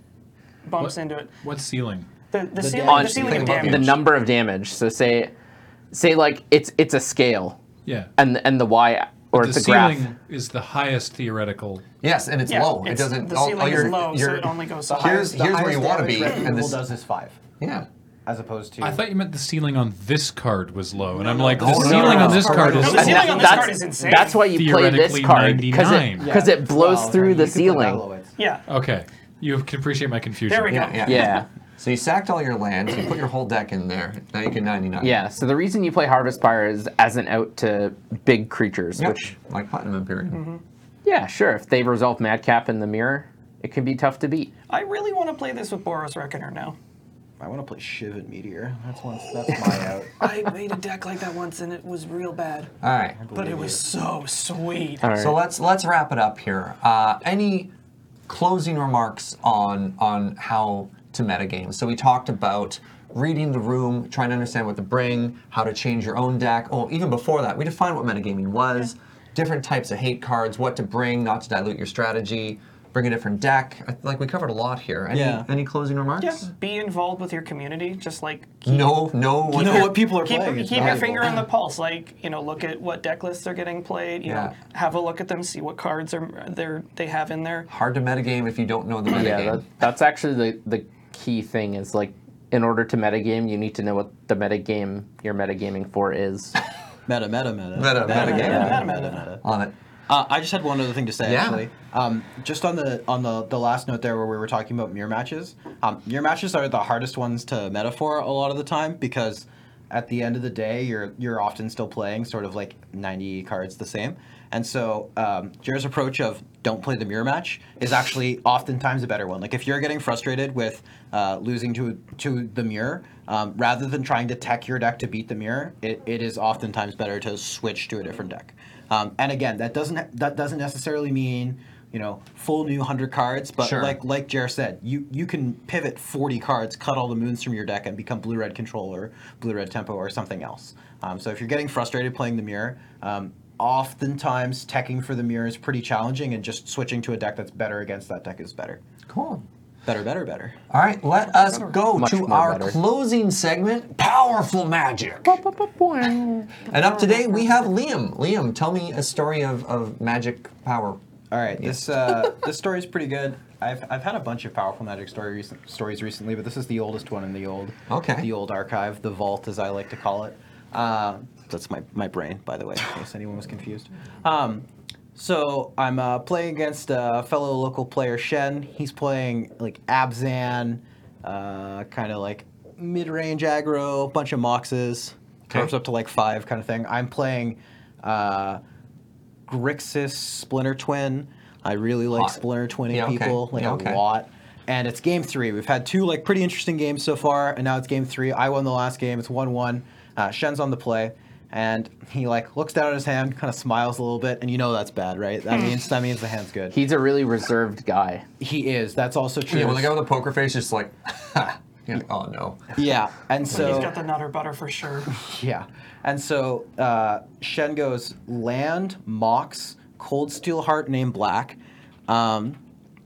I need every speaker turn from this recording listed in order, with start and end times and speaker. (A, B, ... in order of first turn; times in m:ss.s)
0:00.6-0:01.3 A
0:00.8-0:02.1 B
0:02.3-0:03.9 A
0:02.6-0:03.7 C
0:02.8-0:05.3 D
0:03.1-0:04.0 E
0:05.9-0:07.6 D
0:07.9-0:08.1 B
0:08.2-0:10.1 D
0:09.3-0:11.8 B
0:12.0-0:16.8 E
0:12.5-0:15.4 A
0:14.9-0:17.4 C
0:16.2-0:16.6 A
0:17.6-0:17.9 E
0:18.3-0:19.0 C
0:18.8-0:23.7 B
0:21.2-0:23.2 C
0:21.6-0:23.4 E
0:21.6-0:24.4 A
0:21.8-0:28.0 D
0:24.4-0:26.4 B
0:26.2-0:28.4 C
0:28.4-0:28.6 A
0:28.7-0:30.9 B
0:30.5-0:31.3 A
0:30.7-0:35.2 E
0:31.0-0:31.5 D
0:35.0-0:39.3 D
0:39.0-0:40.4 E
0:40.3-0:40.6 A
0:41.0-0:44.5 D
0:44.7-0:46.8 A
0:47.4-0:50.3 C
0:49.5-0:52.7 A
0:52.8-0:53.2 E
0:53.2-0:53.9 C
0:53.3-0:55.1 A
0:55.0-0:55.4 D
0:55.2-0:57.7 E
0:58.3-1:16.5 E
1:15.1-1:15.5 C
1:16.2-1:18.9 A
1:18.7-1:20.1 E
1:19.5-1:21.4 C
1:19.6-1:27.7 A
1:20.8-1:21.4 E
1:24.2-1:24.6 E
1:27.7-1:29.6 E
1:29.1-1:36.6 D
1:37.1-1:39.4 C
1:37.8-1:38.9 E
1:38.0-1:39.3 A
1:38.4-1:38.8 D
1:39.4-1:39.7 E
1:40.1-2:28.8 C
1:41.2-1:41.7 E
2:13.6-2:14.0 E
2:29.1-2:29.4 E
2:29.9-2:30.6 C
2:30.7-2:35.4 E
2:31.4-2:31.8 A
2:31.9-2:32.8 D
2:35.2-2:36.6 D
2:36.7-2:41.0 E
2:36.7-2:37.5 A
2:41.3-3:08.6 C
2:41.6-2:42.4 E
2:47.9-2:48.3 E
3:09.5-3:26.8 C
3:12.1-3:12.4 E
3:12.9-3:14.0 E
3:26.7-3:28.3 D
3:28.4-3:30.0 C
3:29.5-3:32.8 E
3:32.8-3:33.9 C
3:33.5-3:35.1 A
3:33.5-3:33.8 E
3:35.1-3:42.6 C